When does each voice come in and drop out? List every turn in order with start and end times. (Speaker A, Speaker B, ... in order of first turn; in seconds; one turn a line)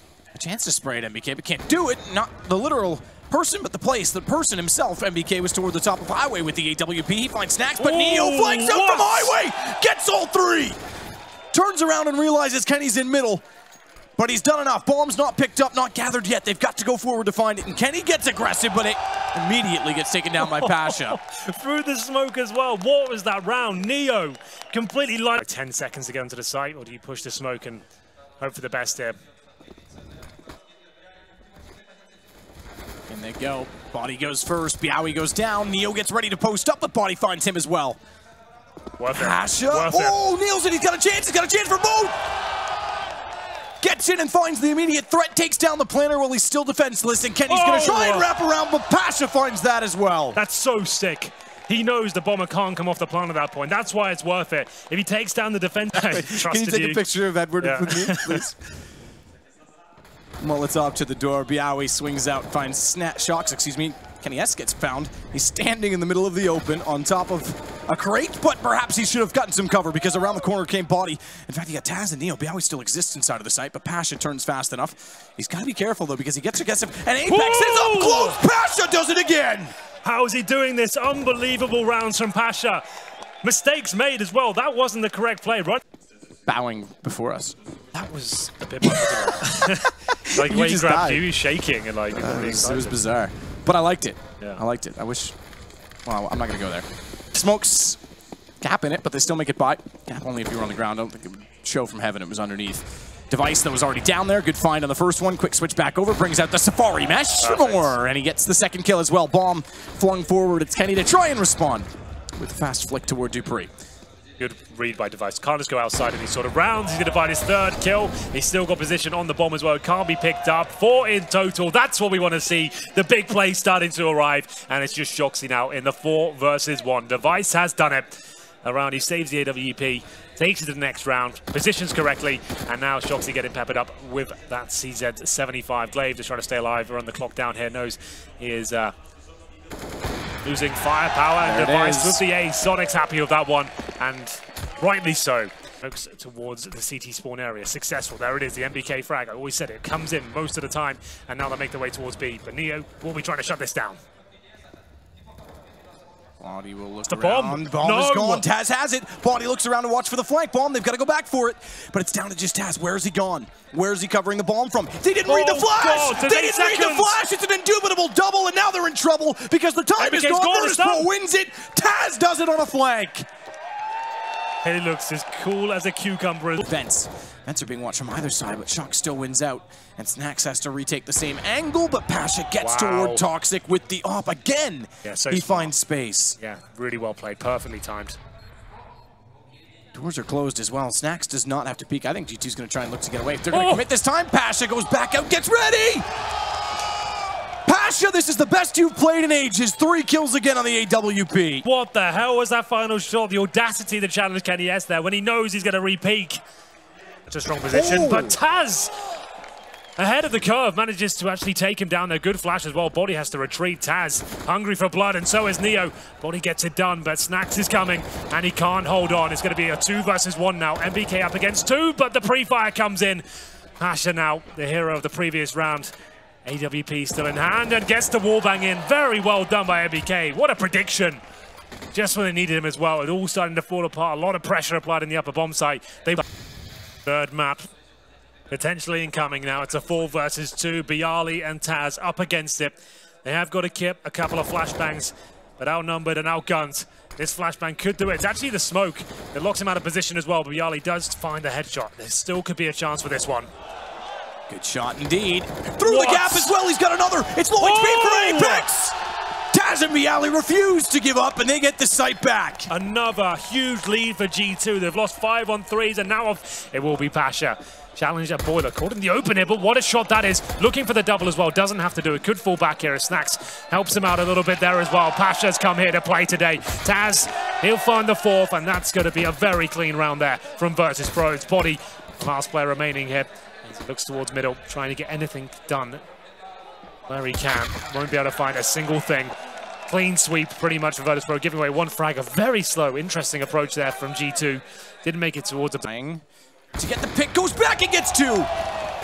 Speaker A: 0.3-10.8
Speaker B: 7.8-9.4
Speaker A: 11.5-13.4
Speaker A: 14.2-21.2
Speaker B: 20.4-27.8
Speaker B: 28.4-29.2
Speaker A: 33.1-38.0
Speaker B: 39.0-40.2
Speaker A: 39.1-42.1
Speaker A: 43.8-50.4
Speaker B: 47.5-48.3
Speaker B: 50.3-57.0
Speaker A: 55.9-58.6
Speaker B: 57.6-58.4
Speaker A: 60.4-79.7
Speaker B: 77.3-78.4
Speaker B: 80.0-82.8
Speaker B: 83.4-85.8
Speaker A: 86.5-87.5
Speaker B: 87.9-93.0
Speaker A: 88.8-89.4
Speaker A: 90.3-91.3
Speaker A: 92.1-95.3
Speaker A: 96.1-98.0
Speaker A: 98.6-113.7
Speaker B: 107.4-108.0
Speaker B: 114.4-138.9
Speaker B: 140.4-154.0
Speaker A: 141.4-142.2
Speaker A: 156.4-173.3
Speaker B: 157.1-158.5
Speaker B: 165.2-167.2
Speaker B: 170.0-171.1
Speaker B: 174.6-176.7
Speaker A: 176.6-186.4
Speaker B: 182.6-183.2
Speaker B: 185.1-185.7
Speaker B: 186.4-188.2
Speaker A: 189.9-196.1
Speaker B: 193.5-193.9
Speaker A: 197.7-201.7
Speaker B: 201.6-206.4
Speaker B: 207.3-208.9
Speaker A: 207.7-208.4
Speaker B: 210.0-223.2
Speaker B: 223.8-225.9
Speaker B: 226.4-231.2
Speaker B: 231.9-236.2
Speaker B: 237.1-237.7
Speaker B: 238.5-253.5
Speaker A: 254.5-259.0
Speaker B: 255.8-256.6
Speaker B: 257.6-258.7
Speaker A: 259.5-262.7
Speaker B: 262.7-286.0
Speaker B: 287.1-289.3
Speaker B: 289.9-295.9
Speaker A: 295.8-296.2
Speaker A: 296.8-298.5